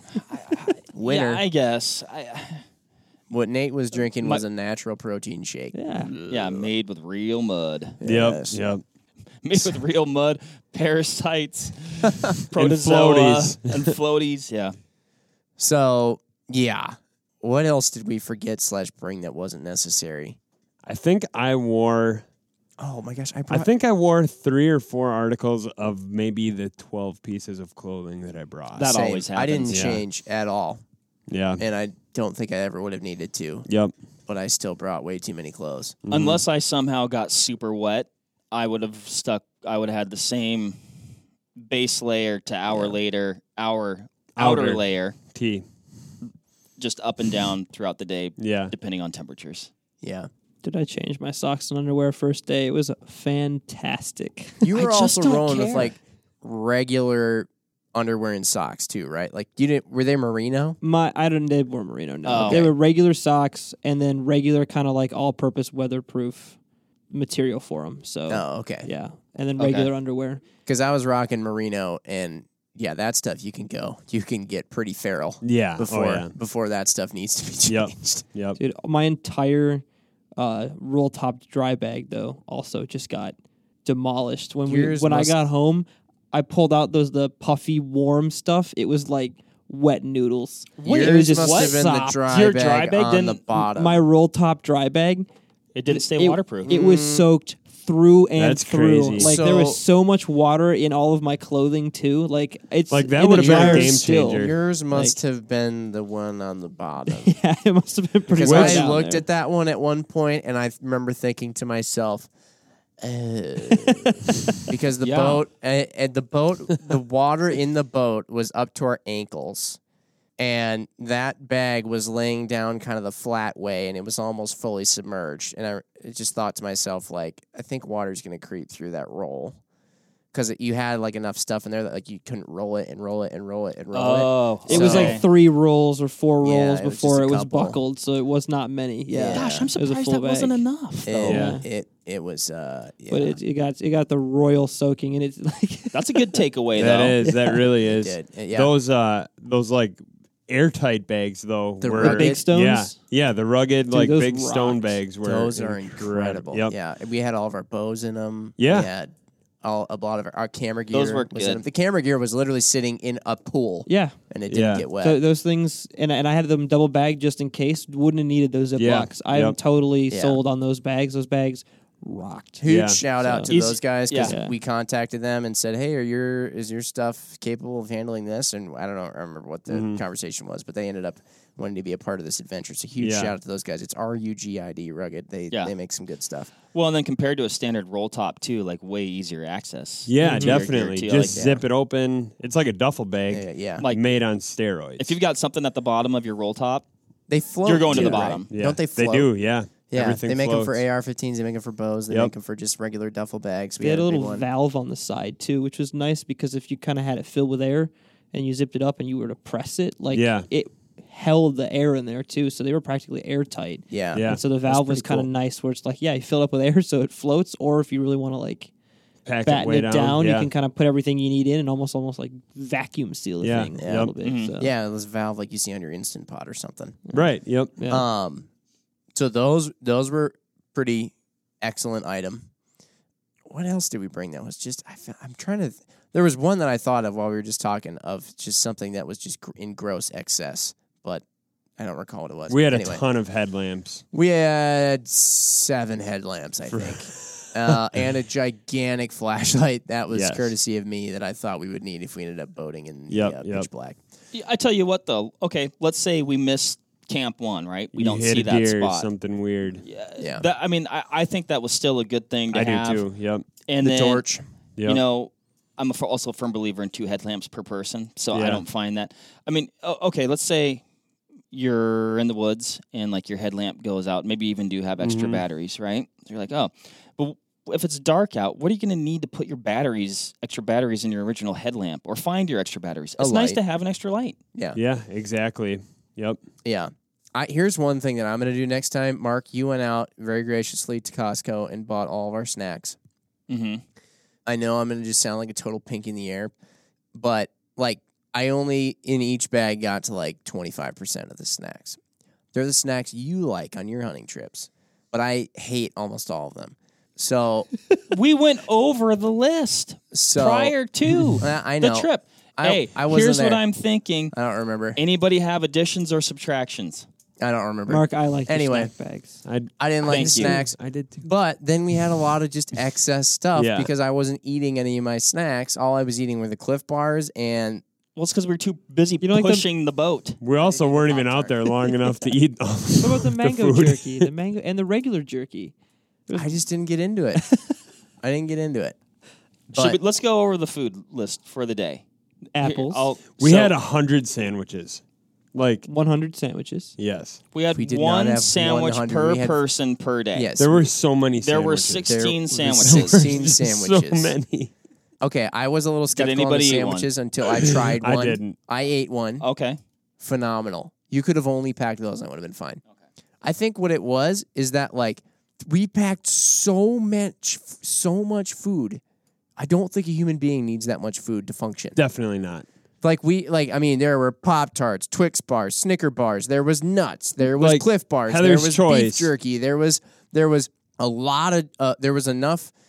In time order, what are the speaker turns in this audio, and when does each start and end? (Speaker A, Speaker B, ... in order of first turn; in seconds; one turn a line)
Speaker A: 0.3-2.6
Speaker B: 0.9-1.4
Speaker B: 3.3-5.8
Speaker C: 5.7-6.1
Speaker A: 6.3-8.0
Speaker B: 8.0-8.6
Speaker D: 8.0-8.8
Speaker A: 9.4-14.8
Speaker D: 12.5-13.9
Speaker B: 15.6-20.4
Speaker D: 20.9-22.2
Speaker B: 22.8-23.7
Speaker D: 23.5-28.9
Speaker A: 28.7-29.9
Speaker B: 28.8-30.8
Speaker D: 29.7-30.0
Speaker D: 31.3-31.6
Speaker B: 31.6-33.7
Speaker B: 34.3-36.0
Speaker D: 36.1-36.4
Speaker A: 36.1-40.8
Speaker A: 41.6-45.2
Speaker B: 42.7-43.0
Speaker D: 44.4-45.6
Speaker A: 46.8-49.7
Speaker D: 48.4-48.7
Speaker B: 50.0-50.3
Speaker C: 50.6-54.7
Speaker B: 54.6-60.8
Speaker A: 54.7-55.9
Speaker C: 60.8-66.6
Speaker A: 62.2-62.7
Speaker B: 62.5-62.7
Speaker C: 67.1-70.4
Speaker B: 68.3-68.9
Speaker A: 69.6-69.9
Speaker B: 70.7-78.3
Speaker D: 75.4-76.3
Speaker D: 77.7-78.6
Speaker C: 78.6-79.8
Speaker C: 80.4-92.2
Speaker B: 84.7-85.4
Speaker B: 90.8-94.0
Speaker A: 90.8-93.4
Speaker C: 93.6-95.3
Speaker A: 95.8-96.7
Speaker C: 95.9-105.2
Speaker B: 96.7-97.3
Speaker D: 98.4-99.4
Speaker B: 99.2-99.8
Speaker D: 102.9-104.5
Speaker B: 103.3-107.3
Speaker C: 107.1-109.2
Speaker B: 108.3-112.3
Speaker D: 108.4-109.0
Speaker B: 113.0-119.8
Speaker A: 115.0-115.4
Speaker B: 120.4-129.6
Speaker B: 130.3-135.2
Speaker A: 133.9-135.2
Speaker C: 134.7-140.6
Speaker B: 136.4-137.8
Speaker B: 139.1-139.7
Speaker A: 139.3-141.3
Speaker B: 141.1-143.4
Speaker D: 141.2-141.6
Speaker C: 141.2-141.7
Speaker C: 143.1-146.4
Speaker A: 145.9-147.2
Speaker D: 146.8-156.7
Speaker C: 147.2-147.7
Speaker B: 147.8-148.7
Speaker B: 151.8-152.4
Speaker C: 152.0-152.9
Speaker C: 153.9-155.0
Speaker B: 155.2-159.1
Speaker D: 158.6-158.9
Speaker B: 159.6-165.2
Speaker A: 160.9-161.6
Speaker C: 163.9-164.2
Speaker D: 164.5-164.9
Speaker C: 165.0-172.7
Speaker D: 168.8-169.6
Speaker B: 170.1-170.4
Speaker B: 172.6-186.5
Speaker D: 172.7-173.0
Speaker C: 173.2-173.6
Speaker A: 173.5-174.3
Speaker C: 174.2-174.5
Speaker D: 179.7-180.0
Speaker D: 183.0-183.3
Speaker A: 186.7-191.4
Speaker D: 190.1-195.2
Speaker C: 190.2-190.6
Speaker B: 191.3-191.6
Speaker B: 193.3-193.8
Speaker A: 195.0-196.9
Speaker B: 197.3-199.3
Speaker A: 197.7-198.5
Speaker D: 197.9-200.8
Speaker B: 199.9-204.5
Speaker C: 203.8-218.7
Speaker D: 210.1-210.5
Speaker B: 213.9-215.3
Speaker D: 214.1-214.9
Speaker D: 219.3-220.5
Speaker C: 219.4-224.7
Speaker D: 223.4-224.1
Speaker B: 223.8-227.0
Speaker A: 224.2-224.5
Speaker C: 227.1-228.1
Speaker D: 227.1-227.8
Speaker B: 227.9-228.5
Speaker B: 229.1-232.5
Speaker B: 233.5-241.2
Speaker B: 241.8-243.0
Speaker D: 242.5-244.0
Speaker B: 244.1-254.0
Speaker D: 246.7-247.8
Speaker D: 250.1-250.5
Speaker D: 253.1-253.7
Speaker A: 254.3-259.1
Speaker D: 257.9-259.8
Speaker A: 259.8-263.1
Speaker B: 260.2-260.5
Speaker D: 262.5-263.4
Speaker A: 263.7-264.2
Speaker B: 263.8-264.4
Speaker A: 264.8-270.8
Speaker D: 268.3-268.6
Speaker A: 271.5-284.4
Speaker D: 275.0-275.4
Speaker B: 283.2-283.6
Speaker D: 284.8-286.4
Speaker B: 286.6-293.0
Speaker A: 293.5-293.8
Speaker B: 294.5-296.5
Speaker B: 297.1-302.0
Speaker B: 302.5-307.7
Speaker A: 308.1-314.3
Speaker B: 310.1-310.8
Speaker B: 311.4-313.6
Speaker B: 314.3-315.0
Speaker A: 315.0-317.1
Speaker B: 317.4-318.9
Speaker C: 317.9-319.4
Speaker D: 319.5-321.3
Speaker B: 319.8-327.8
Speaker A: 320.1-320.6
Speaker D: 323.6-323.9
Speaker A: 328.2-331.5
Speaker C: 329.2-329.7
Speaker D: 330.4-334.3
Speaker C: 333.0-335.7
Speaker C: 336.3-336.6
Speaker B: 336.3-337.4
Speaker B: 338.2-339.0
Speaker B: 339.7-340.0
Speaker A: 339.7-342.0
Speaker C: 342.5-343.1
Speaker A: 342.6-343.8
Speaker D: 343.4-345.0
Speaker D: 345.5-345.9
Speaker C: 345.9-346.9
Speaker D: 347.0-347.4
Speaker A: 347.5-350.5
Speaker B: 347.7-349.6
Speaker B: 350.4-350.9
Speaker D: 350.6-354.7
Speaker A: 351.4-353.4
Speaker B: 352.1-354.4
Speaker B: 355.2-359.4
Speaker A: 356.1-357.1
Speaker D: 357.6-358.6
Speaker A: 359.4-359.8
Speaker B: 360.2-362.8
Speaker B: 363.4-369.0
Speaker B: 369.6-372.0
Speaker D: 372.0-372.7
Speaker B: 373.0-382.7
Speaker D: 377.5-379.3